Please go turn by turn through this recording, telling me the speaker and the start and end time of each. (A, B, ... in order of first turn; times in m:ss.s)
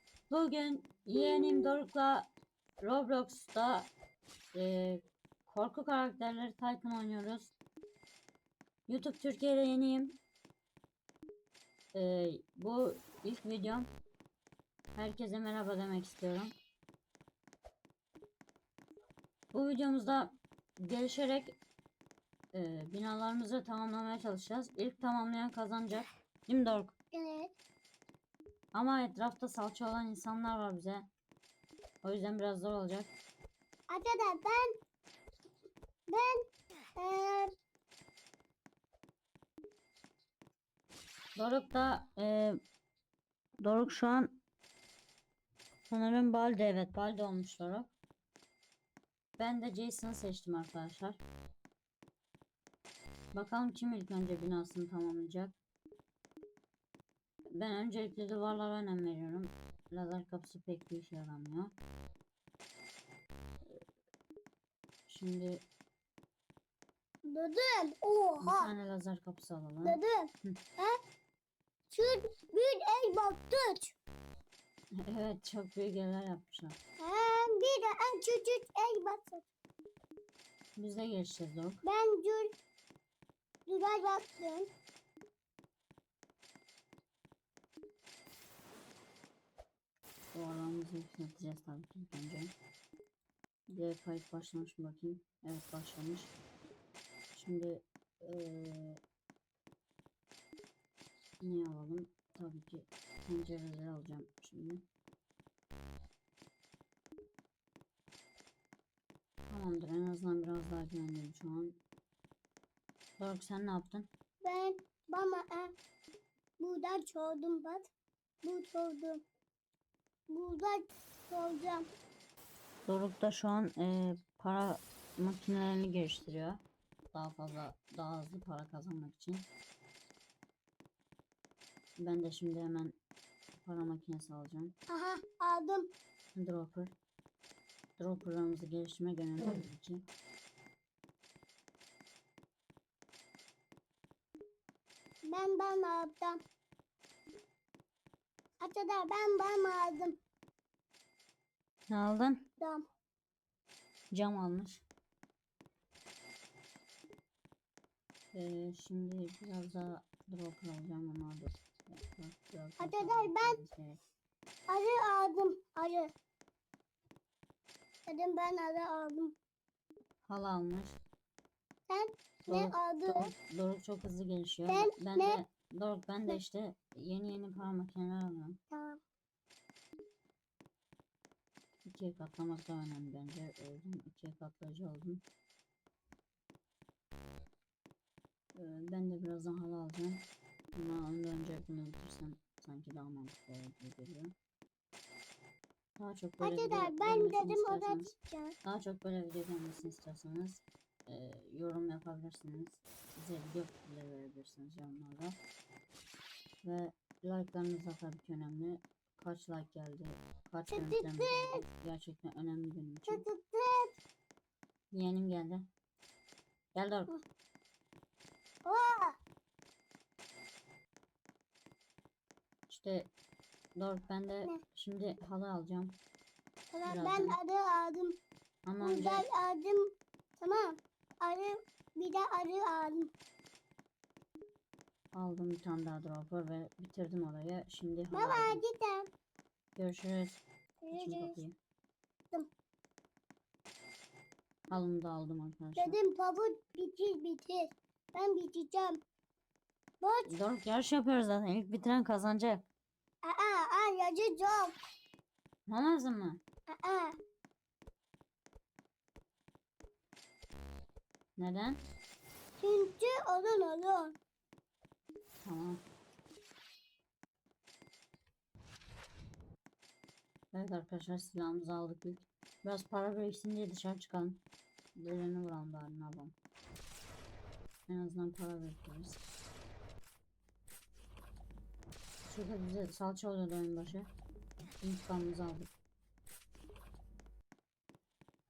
0:00.3-0:02.3 A
0:01.3-0:01.6 B
0:02.8-0:03.9 A
0:04.5-0:07.5 A
0:08.9-0:10.2 A
0:11.9-0:13.9 A
0:14.9-0:16.5 A
0:19.5-0:21.6 A
0:22.5-0:26.9 A
0:27.1-0:27.5 B
0:28.7-0:31.1 A
0:32.0-0:33.1 A
0:33.9-0:34.8 B
0:36.1-0:37.5 B
0:41.4-0:42.6 A
0:43.6-0:44.4 A
0:45.9-0:47.9 A
0:49.4-0:51.2 A
0:53.3-0:55.6 A
0:57.5-1:01.7 A
1:05.1-1:05.6 A
1:07.3-1:08.7 B
1:08.4-1:10.6 A
1:09.8-1:11.0 B
1:11.9-1:13.9 B
1:15.0-1:16.8 A
1:17.0-1:19.5 B
1:20.8-1:21.8 A
1:21.8-1:22.5 B
1:23.7-1:24.7 B
1:30.3-1:32.5 A
1:33.7-1:36.3 A
1:37.3-1:39.0 A
1:41.4-1:44.8 A
1:49.5-1:51.8 A
1:53.2-1:54.1 A
1:54.4-1:55.7 B
1:56.6-1:57.9 B
1:58.4-1:59.2 B
2:00.3-2:01.9 B
2:02.9-2:06.6 A
2:07.1-2:09.5 A
2:12.0-2:13.0 A
2:13.6-2:14.8 A
2:14.9-2:15.9 B
2:16.3-2:16.9 A
2:18.0-2:20.0 A
2:25.2-2:26.4 B
2:28.6-2:30.2 B
2:31.9-2:32.5 A
2:32.6-2:32.8 B
2:34.1-2:34.8 A
2:38.3-2:44.0 A
2:42.8-2:43.6 B
2:44.7-2:46.1 B
2:48.0-2:49.3 B
2:50.2-2:51.0 A
2:51.9-2:53.3 B
2:52.5-2:58.6 A
2:54.7-2:55.4 B
2:58.7-2:59.0 B
3:01.8-3:05.2 A
3:08.5-3:14.3 A
3:16.0-3:18.1 A
3:16.4-3:18.6 B
3:18.6-3:25.4 A
3:26.6-3:33.2 A
3:30.7-3:31.6 B
3:33.1-3:34.0 B
3:34.9-3:35.7 A
3:36.7-3:37.1 A
3:38.6-3:39.2 B
3:42.7-3:43.1 A
3:43.8-3:46.0 A
3:46.7-3:48.2 B
3:46.8-3:47.4 A
3:48.6-3:49.2 A
3:48.8-3:53.1 B
3:55.1-3:58.6 A
3:58.1-3:59.1 B
3:59.8-4:01.6 A
4:00.8-4:01.4 B
4:04.7-4:06.0 A
4:05.8-4:09.0 B
4:10.0-4:10.3 B
4:10.3-4:12.6 A
4:13.2-4:14.8 B
4:15.7-4:16.4 A
4:16.7-4:17.2 B
4:21.4-4:21.8 A
4:22.6-4:24.2 B
4:25.4-4:25.8 A
4:30.5-4:34.4 A
4:35.0-4:36.4 A
4:37.9-4:39.2 A
4:42.2-4:44.1 A
4:44.8-4:45.7 A